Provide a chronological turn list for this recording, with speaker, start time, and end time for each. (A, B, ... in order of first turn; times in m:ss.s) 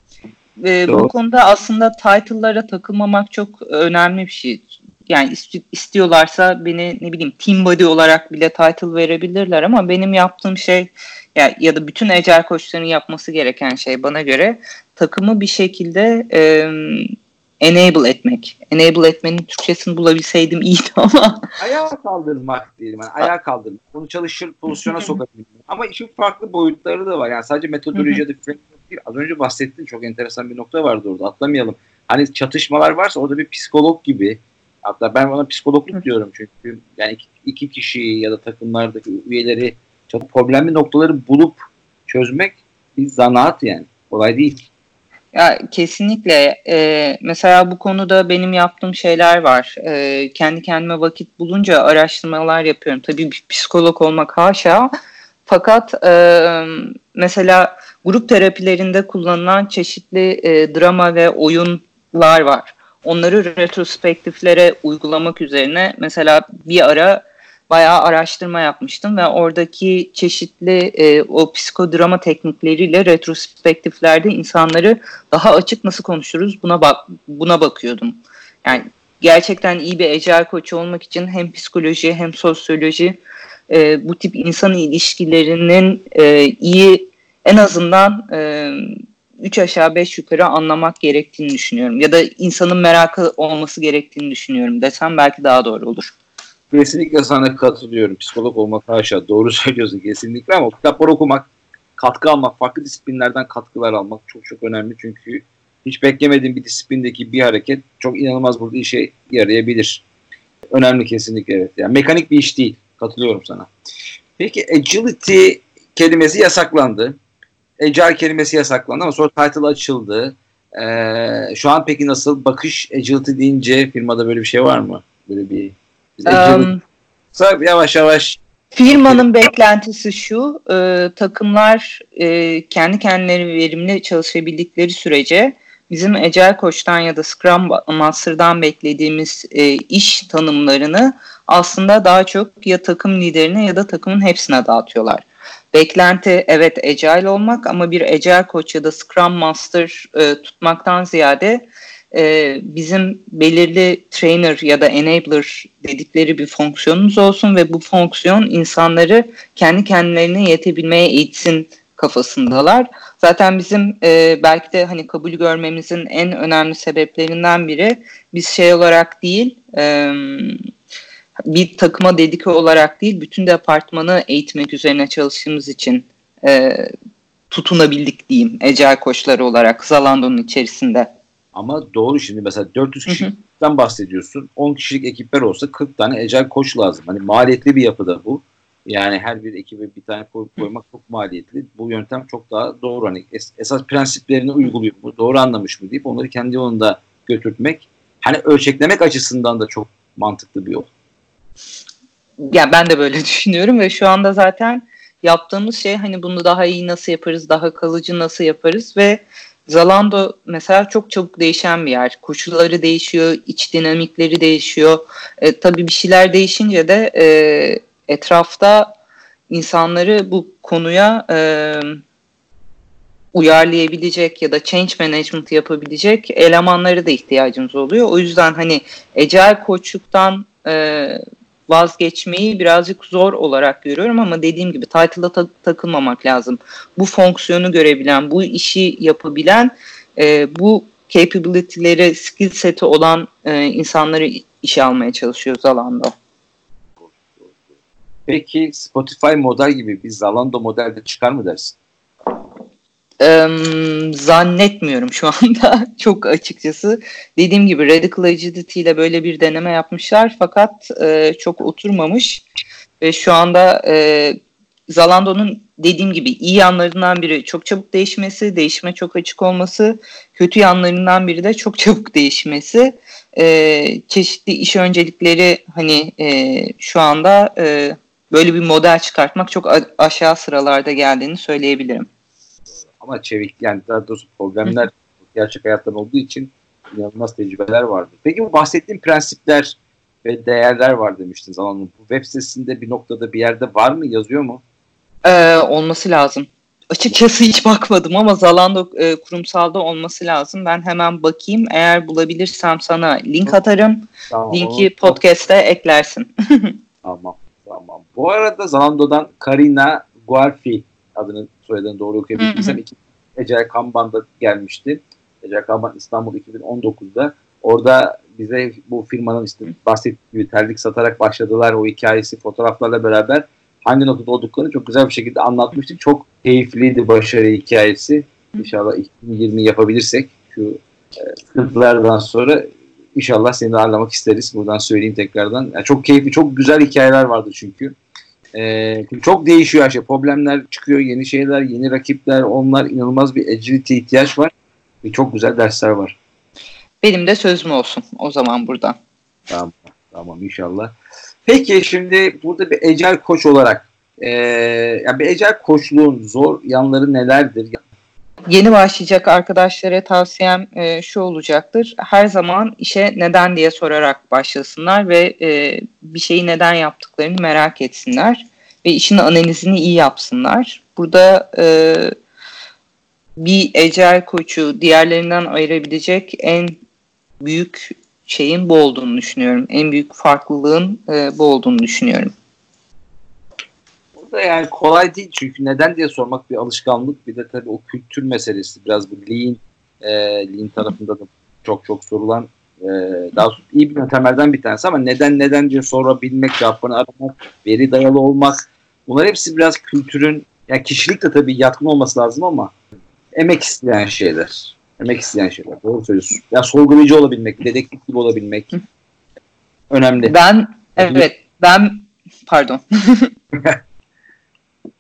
0:00.6-0:21.4 A
0:00.9-0:01.1 B
0:21.6-0:44.6 B
0:45.3-0:54.9 A
0:55.5-1:23.2 A
1:23.7-1:36.1 A
1:36.7-1:50.0 B
1:50.7-1:53.7 B
1:54.4-1:57.2 B
1:57.8-2:06.7 B
2:06.3-2:06.8 A
2:07.3-2:09.3 B
2:08.7-2:50.6 A
2:51.5-2:56.9 A
2:57.5-3:01.1 A
3:01.5-3:20.9 B
3:03.1-3:03.3 A
3:22.4-3:38.9 A
3:39.5-3:42.0 A
3:43.3-4:06.1 A
4:07.0-4:07.5 B
4:08.3-4:11.8 B
4:13.2-4:22.4 A
4:23.0-4:42.1 A
4:43.0-4:54.6 B
4:55.2-5:06.8 A
5:04.3-5:05.2 B
5:07.0-5:38.0 B
5:12.4-5:12.8 A
5:38.5-5:44.5 B
5:45.0-5:46.2 B
5:47.0-5:49.0 A
5:49.5-5:50.9 B
5:51.5-5:57.8 B
5:58.5-6:12.1 A
6:13.4-6:16.8 A
6:17.4-6:22.3 A
6:24.2-6:42.7 B
6:43.4-6:48.8 B
6:49.9-6:50.3 B
6:50.2-6:53.3 A
6:51.0-6:51.3 B
6:53.5-6:53.8 B